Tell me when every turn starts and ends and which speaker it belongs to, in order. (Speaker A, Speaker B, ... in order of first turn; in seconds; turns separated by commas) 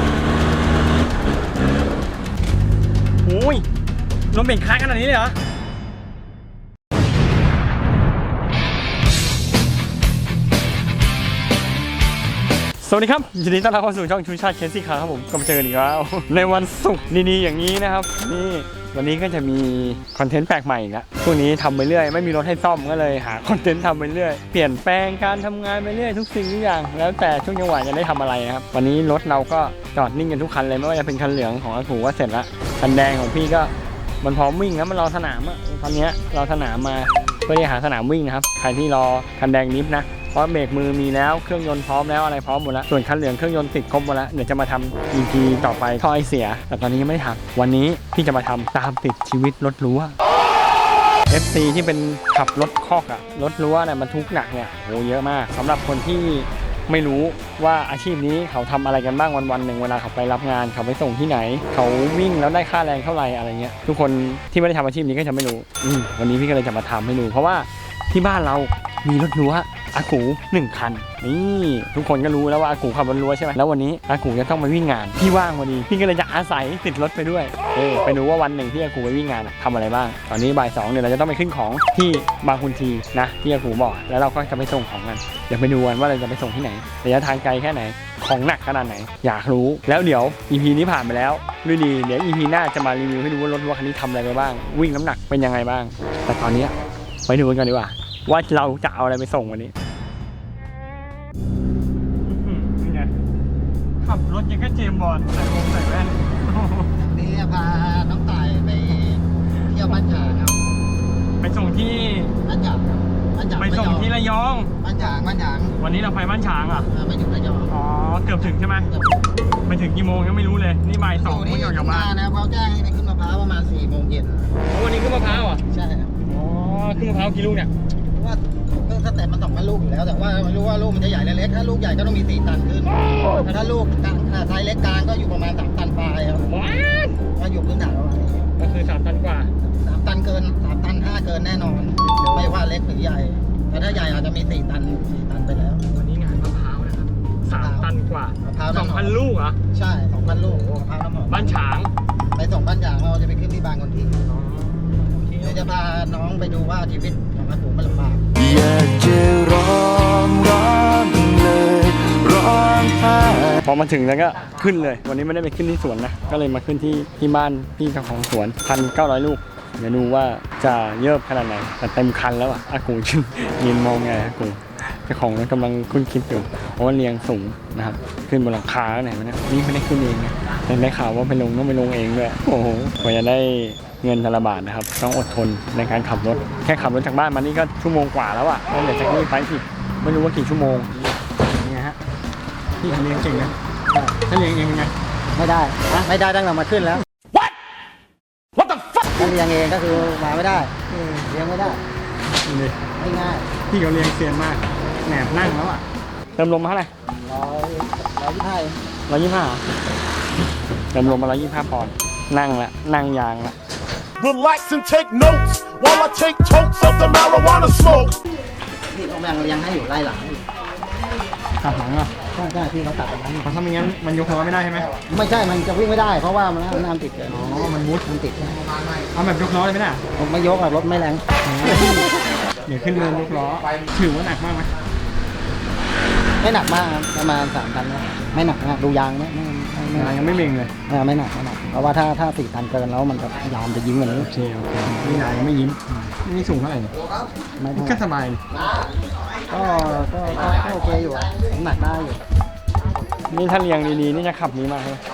Speaker A: 3.2-3.6, Speaker A: 4.3-5.3, Speaker A: 12.8-50.1, Speaker A: 51.3-96.8, Speaker A: 97.3-99.7, Speaker A: 102.2-103.1, Speaker A: 104.0-106.9, Speaker B: 107.0-110.6, Speaker A: 111.4-112.3, Speaker B: 112.4-114.1, Speaker A: 113.6-114.7, Speaker B: 114.8-115.8, Speaker A: 115.8-116.9, Speaker B: 116.9-117.7, Speaker A: 117.7-118.9, Speaker B: 118.7-119.3, Speaker A: 119.7-122.1, Speaker B: 121.1-124.5, Speaker A: 124.7-125.6, Speaker B: 125.5-126.2, Speaker A: 126.2-127.7, Speaker B: 128.1-136.5, Speaker A: 133.2-133.7, Speaker A: 136.4-137.2, Speaker B: 137.2-138.5, Speaker A: 138.6-139.5, Speaker B: 139.6-145.9, Speaker A: 142.1-142.6, Speaker A: 145.9-149.6, Speaker B: 147.5-149.2, Speaker B: 149.7-151.6, Speaker A: 151.3-151.9, Speaker B: 152.3-154.3, Speaker A: 154.3-155.7, Speaker B: 155.4-158.3, Speaker C: 158.4-163.4, Speaker A: 163.5-192.0, Speaker A: 192.8-193.5, Speaker B: 193.9-194.2, Speaker A: 194.3-194.9, Speaker B: 195.3-197.0, Speaker D: 198.6-199.1, Speaker B: 199.2-201.8, Speaker A: 202.5-202.8, Speaker B: 203.0-203.5, Speaker A: 203.7-205.8, Speaker A: 206.4-206.9, Speaker B: 207.2-208.8, Speaker A: 209.1-209.6, Speaker A: 210.9-213.6, Speaker D: 214.2-218.2, Speaker B: 218.9-220.4, Speaker A: 221.6-222.1, Speaker B: 222.3-223.5, Speaker A: 223.4-224.9, Speaker B: 225.0-228.6, Speaker A: 227.3-228.1, Speaker A: 229.1-230.0, Speaker B: 230.2-232.1, Speaker A: 231.4-234.7, Speaker B: 236.4-240.1, Speaker A: 239.9-240.7, Speaker B: 240.9-244.3, Speaker A: 244.2-246.9, Speaker B: 245.0-245.3, Speaker B: 247.6-248.0, Speaker A: 247.7-248.4, Speaker B: 249.5-252.2, Speaker A: 253.3-255.0